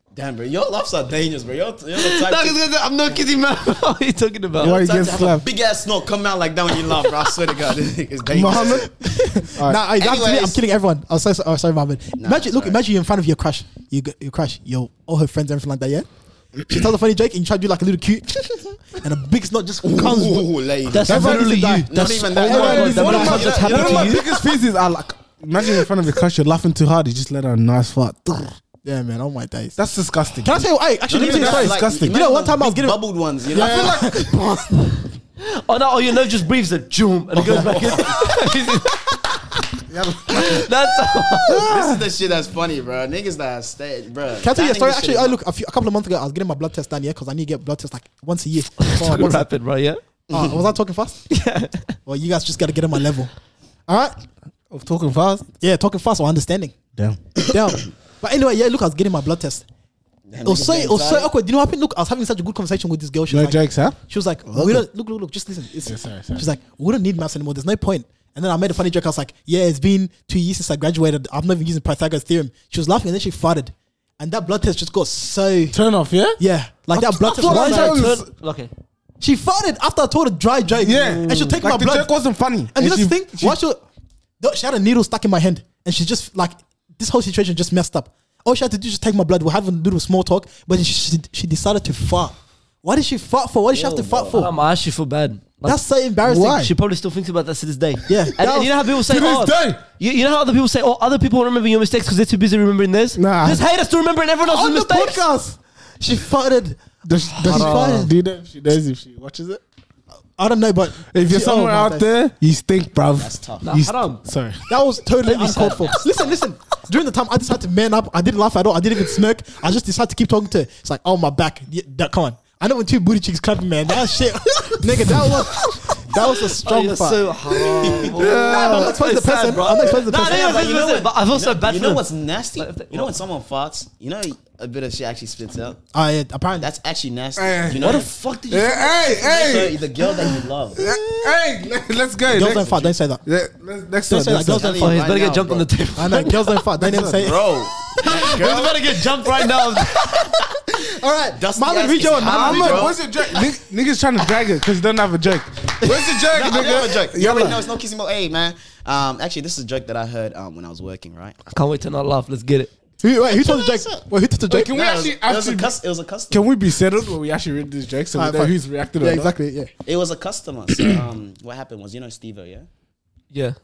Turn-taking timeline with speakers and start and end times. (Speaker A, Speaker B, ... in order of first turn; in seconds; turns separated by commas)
Speaker A: 0.1-2.6, Speaker B: 1.9-4.8, Speaker C: 4.6-5.5, Speaker A: 4.6-9.3, Speaker C: 8.3-8.9, Speaker D: 9.0-16.1, Speaker C: 9.6-9.8, Speaker A: 9.9-10.6, Speaker A: 12.2-12.8, Speaker D: 16.6-20.5, Speaker A: 19.8-24.4, Speaker B: 20.9-24.3, Speaker D: 21.0-24.0, Speaker C: 22.5-28.5, Speaker D: 28.9-29.8, Speaker C: 29.8-32.2, Speaker D: 30.4-33.0, Speaker A: 31.1-34.2, Speaker D: 33.5-34.7, Speaker C: 33.6-34.6, Speaker B: 35.4-39.1, Speaker D: 37.5-38.0, Speaker A: 37.5-38.2, Speaker C: 39.9-40.7, Speaker B: 40.3-41.7, Speaker C: 41.5-42.0, Speaker A: 41.5-45.4, Speaker D: 44.4-49.5, Speaker B: 48.8-50.0, Speaker A: 50.3-50.6, Speaker D: 50.3-51.2, Speaker B: 51.3-52.0, Speaker D: 52.1-53.3, Speaker D: 53.9-54.2, Speaker C: 54.7-55.5, Speaker D: 55.6-56.8, Speaker D: 57.4-59.6, Speaker A: 60.3-61.3, Speaker D: 60.4-75.8, Speaker C: 63.3-64.8, Speaker C: 65.9-66.5, Speaker C: 75.7-76.4, Speaker D: 76.4-78.0, Speaker C: 76.9-78.3, Speaker B: 77.4-78.7, Speaker D: 79.2-82.1, Speaker C: 80.8-83.6, Speaker B: 81.3-81.6, Speaker D: 82.8-83.8, Speaker D: 84.4-94.5, Speaker A: 93.7-94.5, Speaker B: 94.3-95.8, Speaker D: 95.6-96.7, Speaker C: 96.2-96.7, Speaker B: 96.4-105.2, Speaker D: 98.1-98.7, Speaker C: 99.0-99.8, Speaker C: 103.2-103.6, Speaker D: 104.4-108.1, Speaker C: 107.0-109.6, Speaker B: 107.5-108.1, Speaker D: 110.4-112.1, Speaker C: 111.1-114.6, Speaker A: 113.2-113.7, Speaker B: 113.6-114.2, Speaker D: 114.7-127.2, Speaker A: 115.2-116.4, Speaker B: 115.3-115.8, Speaker B: 126.6-132.1, Speaker D: 127.8-130.5, Speaker A: 127.8-128.2, Speaker C: 128.1-129.0, Speaker A: 129.7-135.8, Speaker B: 132.6-133.1, Speaker D: 135.9-136.7, Speaker A: 136.6-138.1, Speaker C: 137.4-142.7, Speaker B: 137.8-139.0, Speaker A: 139.1-140.8, Speaker D: 142.3-143.2, Speaker A: 142.3-142.9, Speaker C: 143.2-144.7, Speaker D: 144.1-144.9, Speaker A: 144.5-145.7, Speaker B: 144.7-146.5, Speaker D: 146.0-147.4, Speaker C: 146.8-147.3, Speaker A: 147.2-149.1, Speaker B: 148.0-150.3, Speaker D: 150.7-152.9, Speaker A: 151.3-153.2, Speaker C: 152.2-157.6, Speaker A: 155.8-161.4, Speaker B: 161.5-162.7, Speaker D: 163.0-164.7, Speaker A: 163.3-164.0, Speaker C: 164.5-165.7, Speaker A: 164.7-166.5, Speaker C: 166.3-169.3, Speaker D: 168.2-169.7, Speaker A: 169.9-172.7